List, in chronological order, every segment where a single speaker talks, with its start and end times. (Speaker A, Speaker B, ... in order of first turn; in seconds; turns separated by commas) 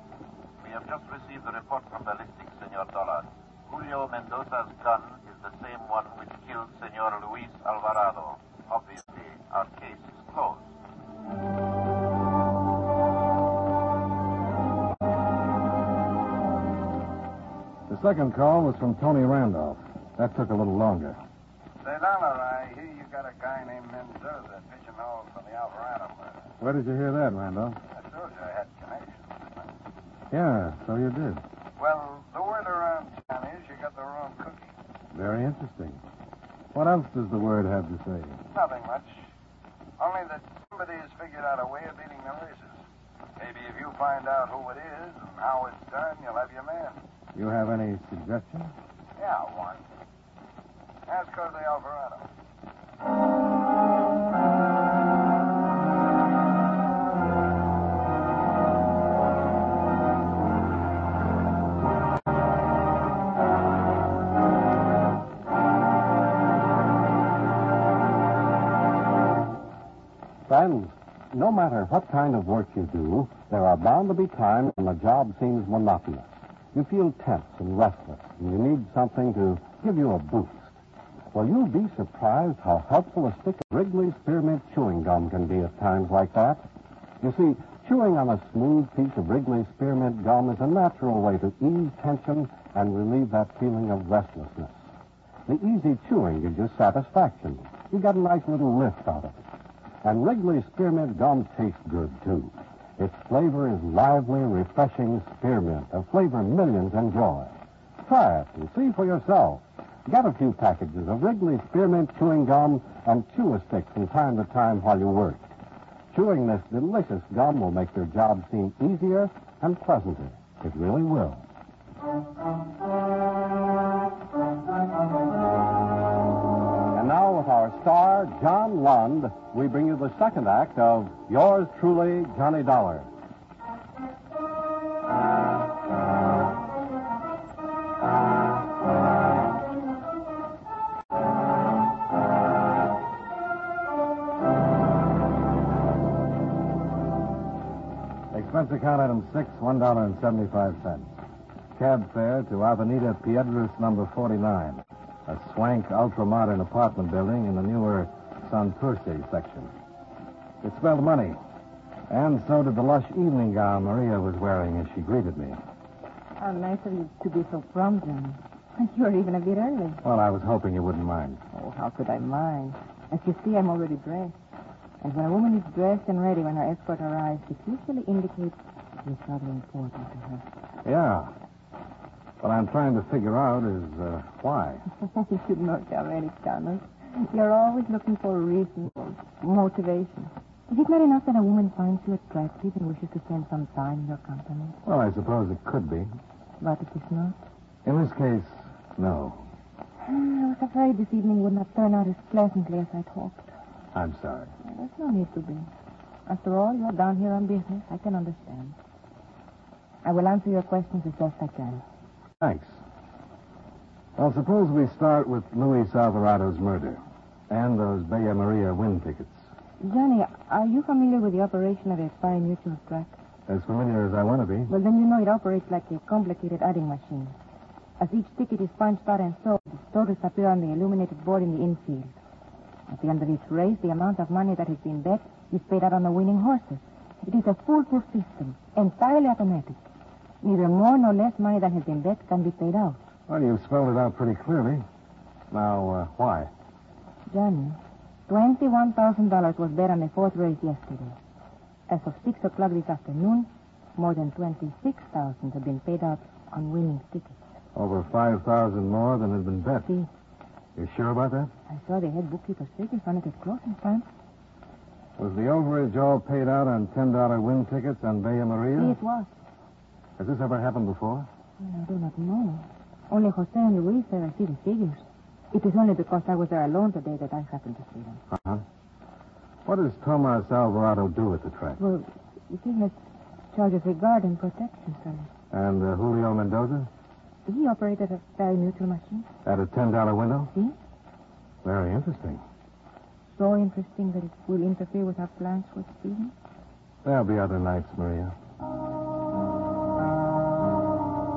Speaker A: 0.6-10.6, Speaker B: 17.9-21.2, Speaker C: 21.8-26.4, Speaker B: 26.6-27.8, Speaker C: 27.9-29.7, Speaker B: 30.3-31.4, Speaker C: 31.8-34.7, Speaker B: 35.1-36.0, Speaker B: 36.7-38.4, Speaker C: 38.5-39.2, Speaker C: 40.0-42.8, Speaker C: 43.4-47.0, Speaker B: 47.4-48.7, Speaker C: 49.2-49.8, Speaker C: 51.1-52.3, Speaker D: 70.5-80.7, Speaker D: 81.3-86.7, Speaker D: 87.2-94.8, Speaker D: 95.5-99.4, Speaker D: 100.0-115.5, Speaker D: 116.1-121.4, Speaker D: 126.9-133.1, Speaker B: 148.3-151.1, Speaker B: 151.8-159.7, Speaker B: 160.6-161.4, Speaker B: 162.1-165.6, Speaker E: 166.4-170.0, Speaker B: 170.0-171.4, Speaker E: 171.5-174.3, Speaker E: 175.0-180.5, Speaker B: 180.8-181.3, Speaker B: 182.4-184.8, Speaker E: 185.0-194.8, Speaker B: 194.8-196.1, Speaker E: 196.6-197.4, Speaker B: 197.8-199.4, Speaker E: 200.0-203.5, Speaker B: 203.9-204.5, Speaker E: 204.6-205.7, Speaker E: 206.3-208.8, Speaker E: 210.0-211.8, Speaker B: 212.4-212.8, Speaker B: 214.2-219.4, Speaker E: 219.8-223.1, Speaker B: 223.5-224.7, Speaker E: 224.7-227.3, Speaker E: 228.0-232.2, Speaker E: 232.9-239.8, Speaker E: 240.4-243.1, Speaker B: 243.3-244.8, Speaker B: 245.5-246.5, Speaker E: 247.3-251.2, Speaker E: 251.9-257.4, Speaker B: 257.8-259.9, Speaker B: 260.8-261.5, Speaker E: 261.7-264.1, Speaker B: 265.2-269.0, Speaker E: 268.8-269.3, Speaker B: 270.2-271.3, Speaker E: 271.6-278.2, Speaker B: 278.3-278.6, Speaker B: 279.7-281.8, Speaker E: 281.8-282.9, Speaker E: 283.5-285.3, Speaker B: 285.5-286.9, Speaker E: 287.5-289.3, Speaker B: 289.4-290.5, Speaker E: 290.5-290.8, Speaker B: 291.6-292.4, Speaker E: 293.3-296.3, Speaker B: 297.0-298.3